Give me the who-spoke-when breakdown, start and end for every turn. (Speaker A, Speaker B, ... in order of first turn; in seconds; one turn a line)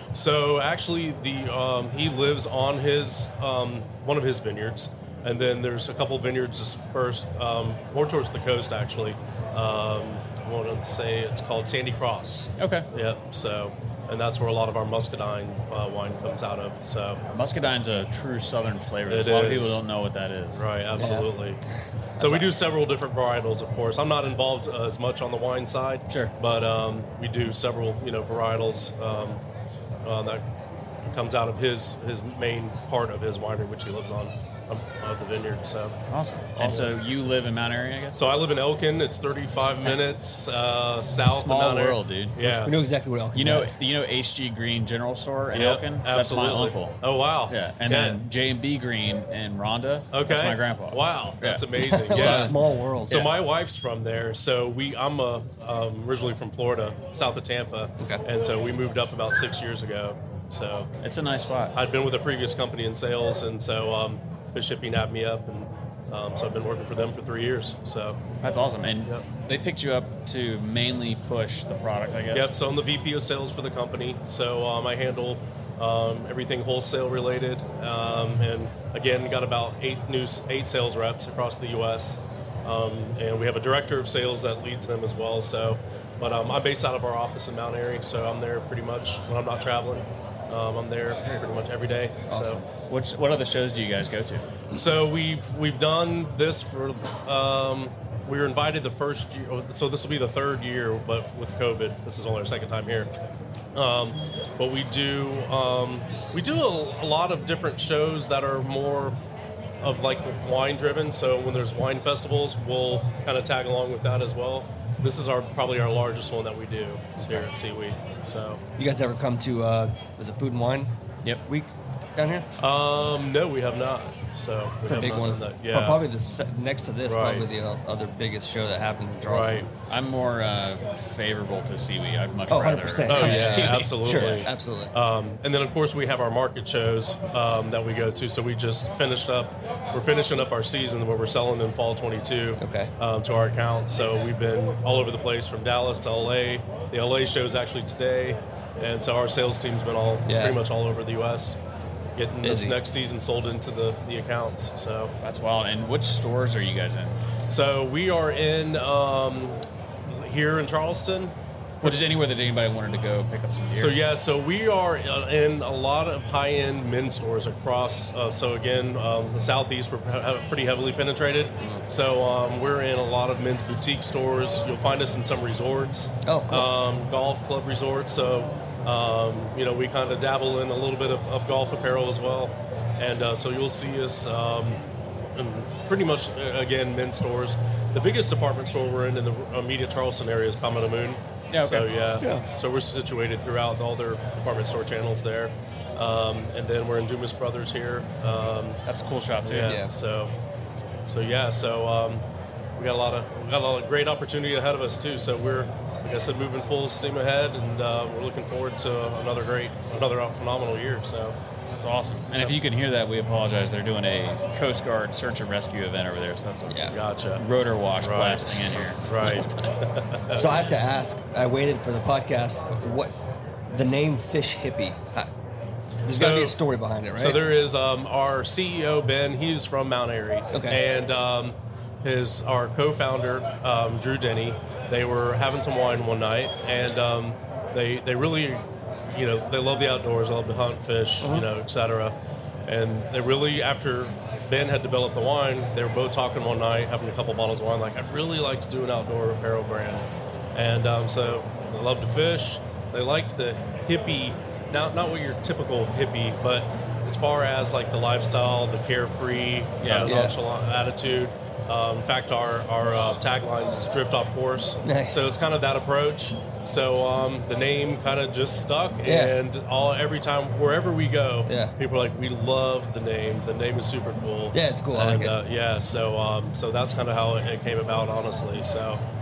Speaker A: 0.1-17.2
Speaker B: 12.6-12.9
Speaker B: 17.3-20.6
Speaker A: 19.1-19.8
Speaker A: 20.5-21.6
Speaker C: 21.0-21.3
Speaker A: 22.2-29.4
Speaker A: 30.0-30.4
Speaker A: 31.1-36.0
Speaker B: 36.1-38.2
Speaker C: 36.6-36.9
Speaker A: 36.6-36.9
Speaker A: 38.1-42.7
Speaker B: 41.2-42.4
Speaker C: 42.4-43.8
Speaker B: 43.3-52.6
Speaker A: 45.5-48.2
Speaker A: 50.1-52.6
Speaker C: 51.8-53.3
Speaker A: 53.1-60.9
Speaker B: 61.0-61.8
Speaker A: 61.7-68.2
Speaker B: 68.4-72.5
Speaker A: 72.3-92.6
Speaker C: 92.3-92.6
Speaker B: 92.3-94.5
Speaker A: 94.7-103.1
Speaker A: 103.8-109.2
Speaker A: 109.8-118.6
Speaker C: 117.2-117.5
Speaker C: 118.8-120.9
Speaker C: 121.4-122.5
Speaker A: 122.6-126.0
Speaker C: 124.9-129.7
Speaker A: 127.1-127.5
Speaker A: 129.2-129.7
Speaker B: 129.9-134.4
Speaker C: 132.5-134.9
Speaker A: 133.1-151.6
Speaker C: 142.6-142.9
Speaker C: 150.2-150.6
Speaker A: 152.2-155.1
Speaker C: 152.4-152.8
Speaker B: 155.2-157.2
Speaker A: 157.5-162.0
Speaker B: 161.8-163.9
Speaker A: 163.8-198.8
Speaker C: 176.2-176.7
Speaker B: 191.5-191.9
Speaker B: 198.8-199.8
Speaker A: 199.4-200.3
Speaker C: 199.6-199.9
Speaker A: 201.1-202.2
Speaker A: 202.8-211.4
Speaker B: 211.7-219.7
Speaker A: 212.3-212.6
Speaker C: 216.7-216.9
Speaker A: 216.9-217.4
Speaker A: 218.0-218.4
Speaker A: 219.0-220.5
Speaker C: 220.3-223.1
Speaker C: 223.7-225.3
Speaker C: 226.1-227.4
Speaker A: 226.1-226.6
Speaker A: 227.1-242.1
Speaker C: 230.5-230.8
Speaker C: 241.2-241.5
Speaker A: 242.7-279.0
Speaker B: 259.8-260.1
Speaker C: 260.0-260.4
Speaker C: 264.8-265.2
Speaker C: 269.0-269.4
Speaker C: 271.5-271.7
Speaker C: 274.5-275.4